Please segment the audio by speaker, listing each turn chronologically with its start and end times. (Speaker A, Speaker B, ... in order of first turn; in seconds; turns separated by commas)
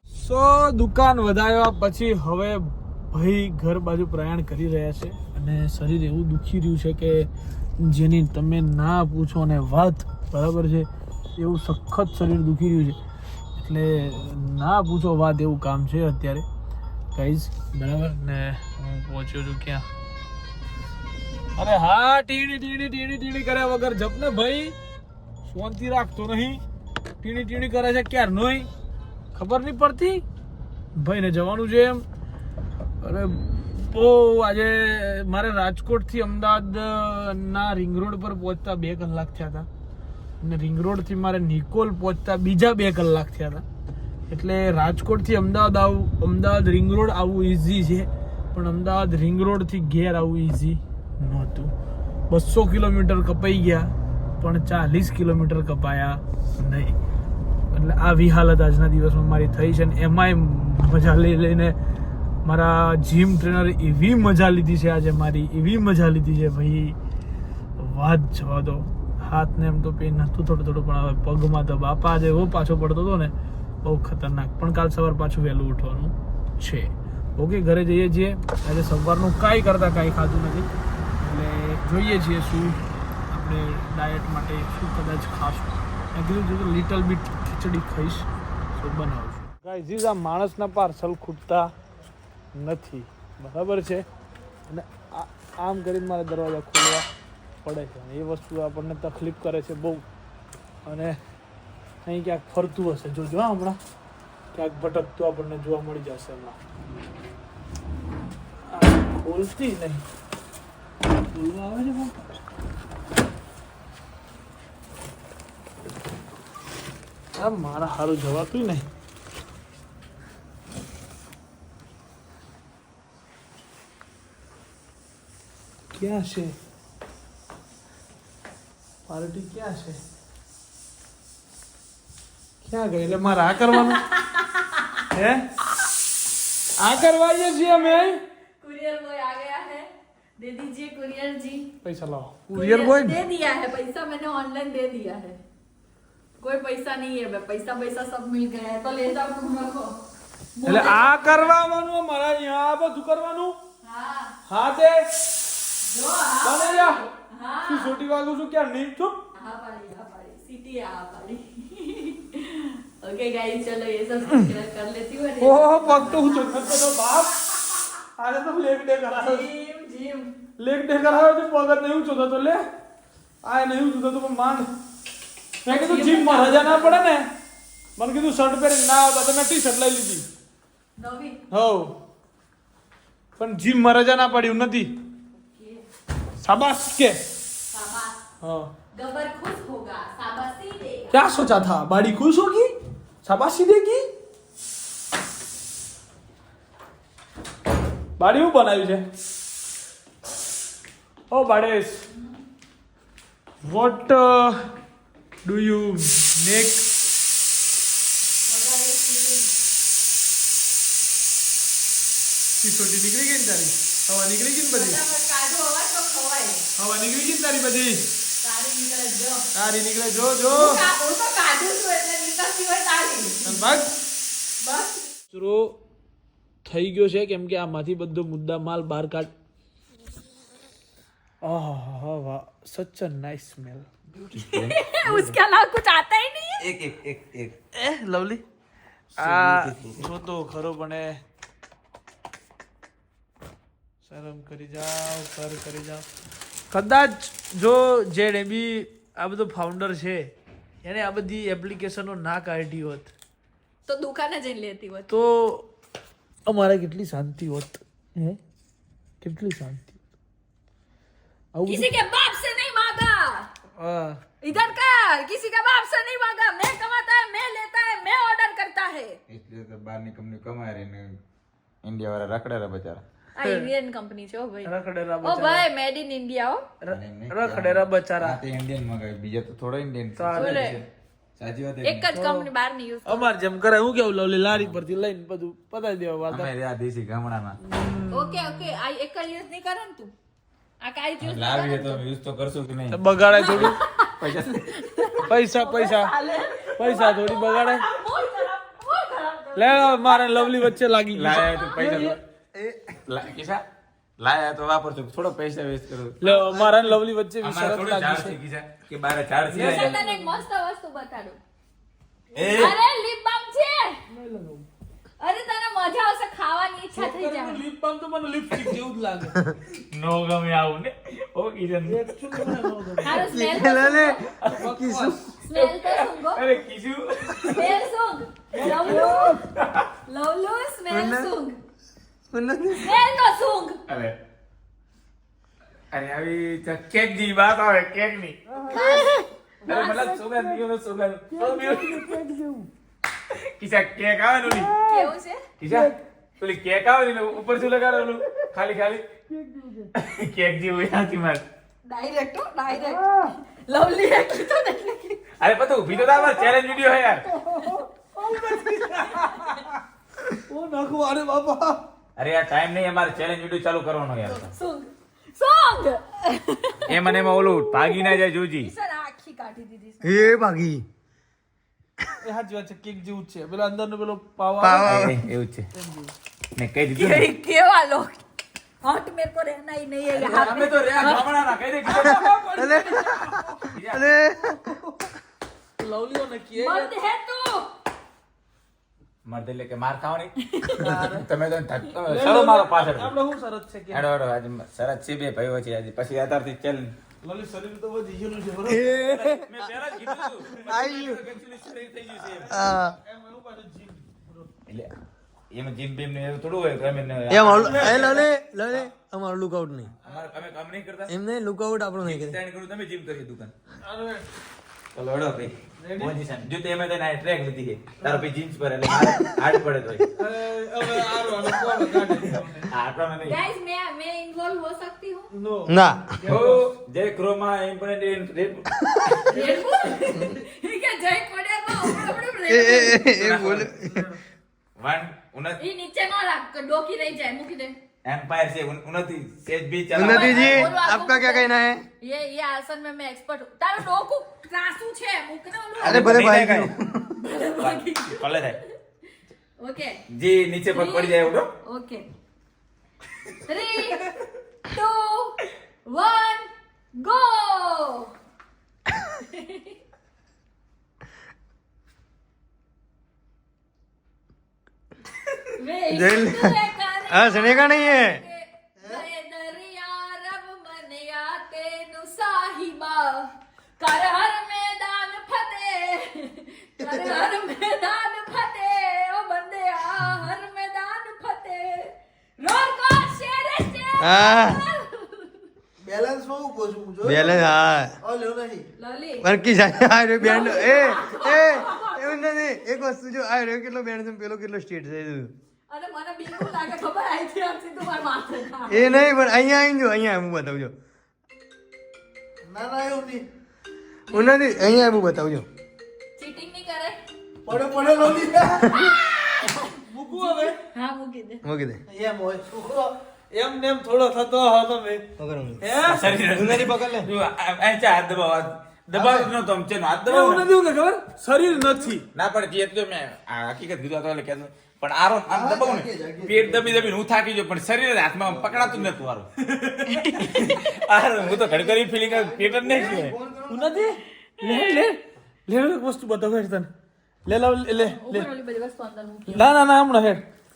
Speaker A: 0.1-13.0, Speaker A: 13.6-16.5, Speaker A: 17.1-19.9, Speaker A: 21.6-24.8, Speaker A: 25.4-26.6, Speaker A: 27.2-28.7, Speaker A: 29.3-30.2, Speaker A: 30.9-32.1, Speaker A: 33.0-39.7, Speaker A: 40.4-43.6, Speaker A: 44.3-51.7, Speaker A: 52.3-57.0, Speaker A: 57.7-61.8, Speaker A: 62.4-67.0, Speaker A: 67.8-80.7, Speaker A: 81.2-91.7, Speaker A: 92.5-94.0, Speaker A: 94.7-97.1, Speaker A: 97.6-100.1, Speaker A: 100.8-101.2, Speaker A: 102.0-103.8, Speaker A: 104.5-106.6, Speaker A: 108.7-110.0, Speaker A: 111.3-112.2, Speaker A: 117.4-118.9, Speaker A: 125.9-126.6, Speaker A: 129.1-130.0, Speaker A: 132.6-134.1, Speaker B: 133.7-135.0, Speaker A: 135.1-135.5, Speaker A: 136.8-138.2, Speaker B: 137.7-141.7, Speaker A: 141.8-143.2, Speaker B: 142.5-145.4, Speaker B: 146.4-150.0, Speaker B: 150.6-151.4, Speaker A: 150.7-153.6, Speaker B: 153.8-154.4, Speaker A: 154.5-155.1, Speaker B: 155.8-158.0, Speaker A: 156.4-157.0, Speaker A: 157.7-159.2, Speaker B: 159.3-167.9, Speaker A: 165.4-167.4, Speaker A: 168.2-169.5, Speaker B: 169.2-170.3, Speaker A: 170.6-172.7, Speaker A: 173.4-174.7, Speaker A: 175.6-177.3, Speaker B: 175.7-177.0, Speaker A: 178.0-180.3, Speaker B: 181.0-181.5, Speaker A: 181.5-182.0, Speaker A: 183.4-185.0, Speaker B: 185.3-185.9, Speaker A: 186.4-187.2, Speaker B: 187.7-188.2, Speaker A: 188.4-188.7, Speaker B: 188.9-191.2, Speaker A: 191.1-194.1, Speaker A: 198.2-199.1, Speaker A: 201.3-202.1, Speaker A: 203.6-204.7, Speaker A: 205.4-206.9, Speaker B: 208.4-209.5, Speaker A: 212.6-215.0, Speaker B: 214.7-216.7, Speaker A: 216.8-218.1, Speaker B: 218.4-219.5, Speaker A: 219.6-220.8, Speaker B: 220.5-223.8, Speaker A: 223.4-223.9, Speaker B: 224.6-225.1, Speaker A: 225.3-225.8, Speaker A: 226.7-229.3, Speaker A: 231.4-233.9, Speaker C: 234.2-235.4, Speaker B: 234.3-236.7, Speaker C: 236.6-237.6, Speaker A: 237.7-238.4, Speaker A: 239.2-241.2, Speaker C: 239.2-240.1, Speaker A: 244.0-246.1, Speaker A: 246.7-250.3, Speaker A: 250.8-253.1, Speaker B: 253.9-255.1, Speaker A: 255.1-255.7, Speaker A: 256.5-258.4, Speaker A: 259.2-260.0, Speaker A: 261.5-261.9, Speaker B: 261.6-263.5, Speaker A: 263.8-264.2, Speaker B: 264.4-269.2, Speaker C: 269.3-271.2, Speaker C: 271.8-273.0, Speaker B: 273.4-276.7, Speaker A: 273.4-273.7, Speaker A: 274.6-275.7, Speaker A: 276.8-278.4, Speaker C: 276.9-280.9, Speaker A: 280.2-280.8, Speaker B: 280.3-280.8, Speaker C: 281.4-282.1, Speaker B: 281.8-283.4, Speaker A: 282.1-282.5, Speaker A: 283.1-286.5, Speaker C: 284.5-284.8, Speaker C: 286.3-287.6, Speaker A: 287.6-288.7, Speaker B: 288.1-290.1, Speaker B: 290.8-292.0, Speaker C: 291.2-295.2, Speaker A: 292.9-293.8, Speaker B: 293.3-300.7, Speaker A: 295.2-296.1, Speaker A: 296.7-297.9, Speaker A: 299.6-302.2, Speaker C: 301.1-302.2, Speaker B: 301.4-301.7, Speaker D: 302.6-303.0, Speaker C: 303.1-303.6, Speaker C: 304.2-306.2, Speaker A: 306.2-308.4, Speaker D: 306.3-306.9, Speaker C: 307.4-310.0, Speaker A: 309.5-310.4, Speaker B: 309.6-311.4, Speaker A: 312.4-312.7, Speaker C: 312.4-312.8, Speaker B: 312.5-314.0, Speaker A: 314.1-314.7, Speaker B: 315.2-317.6, Speaker A: 316.9-319.5, Speaker C: 319.9-322.0, Speaker A: 321.9-323.4, Speaker B: 323.0-324.3, Speaker D: 323.1-325.3, Speaker A: 324.4-325.4, Speaker B: 325.4-326.5, Speaker C: 325.5-327.8, Speaker B: 327.5-329.4, Speaker A: 328.5-329.4, Speaker C: 329.6-329.9, Speaker B: 330.1-331.6, Speaker D: 330.9-331.3, Speaker D: 332.3-333.0, Speaker B: 332.7-333.8, Speaker C: 333.9-334.2, Speaker C: 335.9-338.4, Speaker A: 338.5-340.6, Speaker B: 338.7-340.1, Speaker C: 339.6-342.1, Speaker A: 341.3-342.7, Speaker B: 341.6-342.1, Speaker C: 343.3-344.8, Speaker A: 344.5-345.1, Speaker B: 344.8-345.5, Speaker C: 345.6-349.0, Speaker A: 345.7-346.0, Speaker A: 349.3-349.9, Speaker C: 349.9-351.4, Speaker B: 351.9-355.3, Speaker A: 352.7-353.4, Speaker C: 355.4-357.3, Speaker A: 356.1-356.4, Speaker A: 357.3-361.8, Speaker B: 357.5-357.8, Speaker B: 358.6-359.6, Speaker C: 362.2-364.6, Speaker B: 364.3-370.4, Speaker C: 366.9-368.7, Speaker D: 370.0-370.9, Speaker A: 372.2-375.0, Speaker D: 374.6-375.2, Speaker C: 374.8-375.6, Speaker A: 375.7-376.1, Speaker C: 376.6-377.3, Speaker B: 376.9-378.2, Speaker B: 378.8-381.5, Speaker C: 380.1-382.2, Speaker A: 381.8-383.7, Speaker D: 381.9-384.8, Speaker C: 383.7-384.1, Speaker A: 384.4-384.7, Speaker A: 385.8-386.9, Speaker B: 386.6-387.7, Speaker C: 389.2-393.1, Speaker B: 390.5-391.0, Speaker A: 390.8-391.2, Speaker D: 390.8-391.1, Speaker A: 392.1-394.1, Speaker C: 393.9-396.9, Speaker A: 397.2-399.3, Speaker D: 398.7-399.6, Speaker C: 399.2-402.6, Speaker D: 400.5-401.2, Speaker A: 402.1-404.5, Speaker D: 402.5-403.0, Speaker C: 405.5-408.2, Speaker D: 407.3-409.9, Speaker A: 407.5-408.3, Speaker C: 410.0-411.1, Speaker D: 411.1-412.4, Speaker C: 412.0-413.5, Speaker A: 413.8-414.3, Speaker C: 414.9-420.1, Speaker A: 415.8-416.1, Speaker A: 418.0-418.3, Speaker A: 420.1-422.7, Speaker C: 420.9-423.4, Speaker B: 423.2-425.3, Speaker A: 425.3-426.8, Speaker D: 425.7-426.2, Speaker C: 426.3-428.7, Speaker B: 429.2-433.1, Speaker A: 429.3-429.7, Speaker D: 432.5-434.1, Speaker C: 433.0-433.7, Speaker A: 433.6-434.2, Speaker C: 434.8-435.6, Speaker B: 435.6-437.8, Speaker C: 438.0-440.8, Speaker D: 439.9-441.8, Speaker B: 440.0-446.2, Speaker C: 445.8-446.7, Speaker D: 445.8-447.1, Speaker B: 447.2-448.7, Speaker C: 447.6-448.6, Speaker B: 449.6-450.0, Speaker C: 450.1-451.5, Speaker B: 450.7-452.1, Speaker B: 453.5-454.1, Speaker B: 454.7-458.1, Speaker B: 459.2-459.8, Speaker B: 465.6-485.5, Speaker D: 465.9-466.5, Speaker D: 467.1-468.2, Speaker D: 476.9-477.2, Speaker D: 484.0-484.6, Speaker A: 485.8-487.5, Speaker D: 487.0-488.0, Speaker A: 488.0-488.6, Speaker B: 488.8-489.3, Speaker D: 489.2-495.3, Speaker B: 490.2-492.2, Speaker B: 495.7-499.1, Speaker D: 498.7-500.7, Speaker A: 502.5-503.2, Speaker B: 504.1-504.8, Speaker D: 504.1-505.5, Speaker B: 506.2-507.0, Speaker A: 507.5-508.7, Speaker D: 508.6-508.9, Speaker B: 508.7-511.4, Speaker A: 509.6-510.6, Speaker D: 511.4-511.8, Speaker A: 511.9-515.0, Speaker D: 515.2-517.1, Speaker A: 515.6-516.1, Speaker C: 515.8-520.5, Speaker A: 518.9-519.3, Speaker D: 519.0-519.3, Speaker A: 520.1-522.1, Speaker C: 522.1-529.3, Speaker D: 525.3-527.0, Speaker D: 528.2-529.0, Speaker A: 529.5-530.0, Speaker B: 529.9-530.8, Speaker C: 530.2-533.1, Speaker D: 531.2-533.9, Speaker A: 533.5-536.7, Speaker B: 534.4-534.9, Speaker A: 537.3-538.3, Speaker B: 537.8-539.6, Speaker A: 539.3-540.2